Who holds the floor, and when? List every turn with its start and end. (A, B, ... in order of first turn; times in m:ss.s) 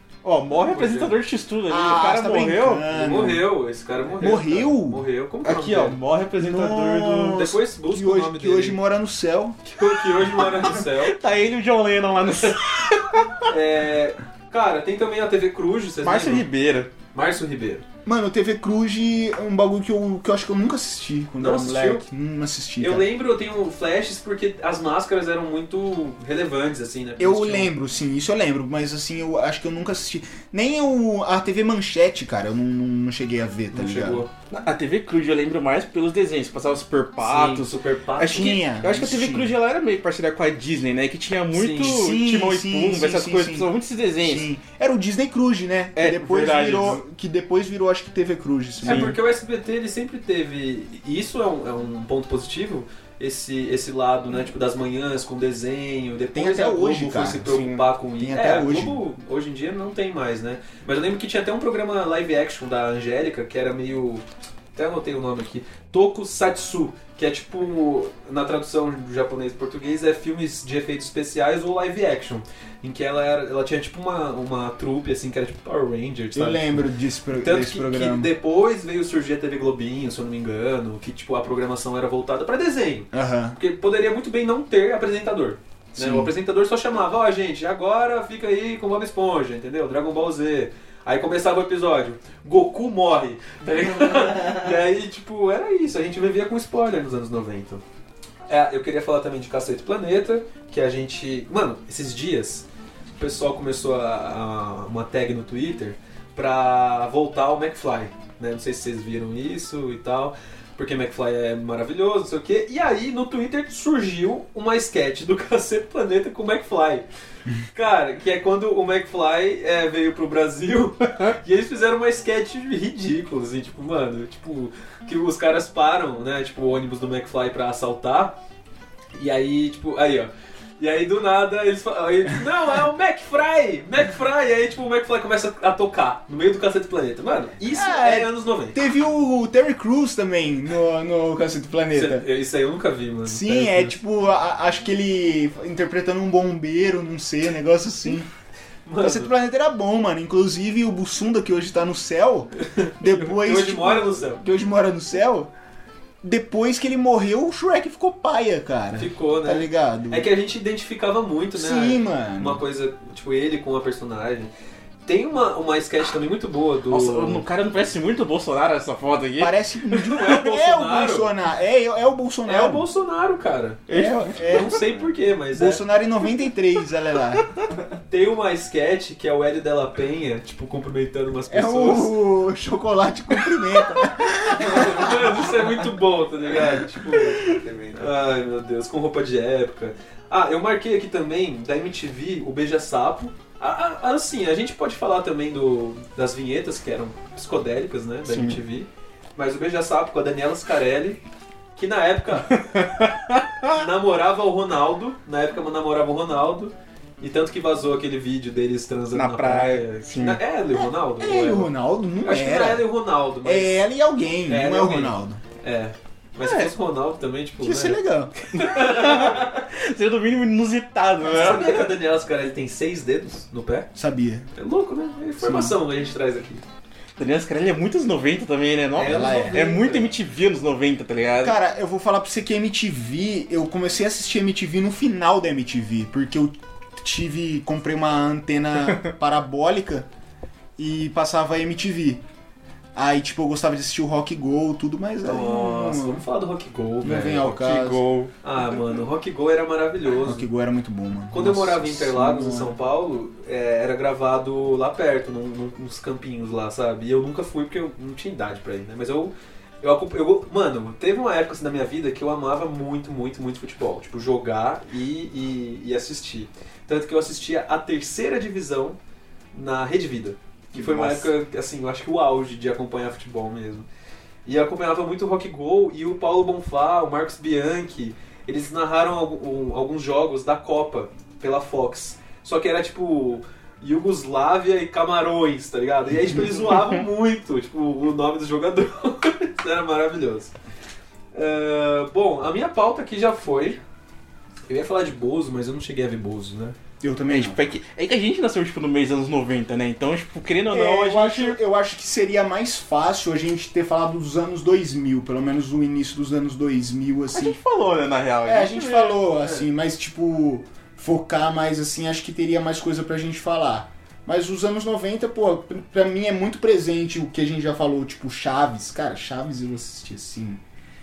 0:00.2-0:02.8 A
0:00.6-0:01.2 B
0:01.7-0:03.4 C
0:02.9-0:06.0 B
0:04.2-0:05.0 C
0:05.4-0:07.4 A
0:06.4-0:09.6 C
0:07.4-0:08.8 B
0:09.6-0:11.1 B
0:10.6-0:13.4 A
0:13.5-0:16.4 B
0:16.0-0:16.9 A
0:17.1-0:17.8 B
0:18.0-0:23.1 C
0:21.4-0:22.0 B
0:22.8-0:27.7 B
0:27.2-0:34.2 C
0:33.7-0:34.3 B
0:34.5-0:44.5 A
0:37.2-0:38.6 B
0:38.2-0:39.5 C
0:41.5-0:42.0 B
0:41.7-0:49.2 C
0:46.0-0:47.0 A
0:48.8-1:04.2 B
0:48.8-0:49.1 A
0:56.3-0:59.0 C
1:04.7-1:37.8 B
1:16.3-1:18.3 C
1:23.1-1:23.6 C
1:25.9-1:26.3 C
1:38.5-1:42.7 B
1:43.2-1:57.1 B
1:57.7-2:08.4 B
2:09.1-2:18.8 B
2:17.7-2:22.3 C
2:21.9-2:24.0 B
2:23.2-2:28.3 C
2:28.8-2:29.3 B
2:29.0-2:35.5 C
2:32.6-2:34.4 B
2:36.2-2:40.3 C
2:39.0-2:44.5 B
2:41.5-2:42.6 C
2:45.0-2:47.4 B
2:46.9-2:49.6 A
2:49.4-2:52.9 C
2:50.0-2:51.3 B
2:52.4-2:53.9 B
2:53.9-2:54.8 A
2:53.9-2:54.8 C
2:54.4-2:55.8 B
2:55.5-2:57.5 C
2:58.1-3:02.2 B
3:01.5-3:05.3 C
3:04.5-3:21.2 B
3:07.5-3:07.9 A
3:18.3-3:18.6 A
3:21.8-3:22.6 B
3:22.5-3:23.8 A
3:23.6-3:33.8 B
3:29.1-3:30.4 A
3:31.2-3:32.9 C
3:33.4-3:35.4 C
3:34.5-3:38.0 B
3:36.4-3:36.7 A
3:37.6-3:38.3 C
3:38.5-3:39.6 B
3:38.6-3:41.9 A
3:41.2-3:43.9 B
3:43.9-3:44.5 C
3:44.5-3:46.6 B
3:45.4-3:45.8 C
3:47.2-3:51.6 A
3:48.9-3:50.1 B
3:49.0-3:49.7 C
3:51.4-4:00.1 C
4:00.8-4:02.2 C
4:02.9-4:06.2 C
4:05.2-4:07.6 B
4:07.0-4:08.0 C
4:07.6-4:08.3 A
4:08.4-4:10.5 B
4:10.2-4:12.8 C
4:11.3-4:29.0 B
4:29.5-4:33.9 B
4:30.7-4:31.3 A
4:34.4-4:50.5 B
4:51.3-4:53.8 B
4:54.7-4:56.8 B
4:57.0-4:57.6 C
4:57.3-5:01.6 A
5:00.7-5:07.6 C
5:07.3-5:09.3 A
5:08.4-5:20.6 C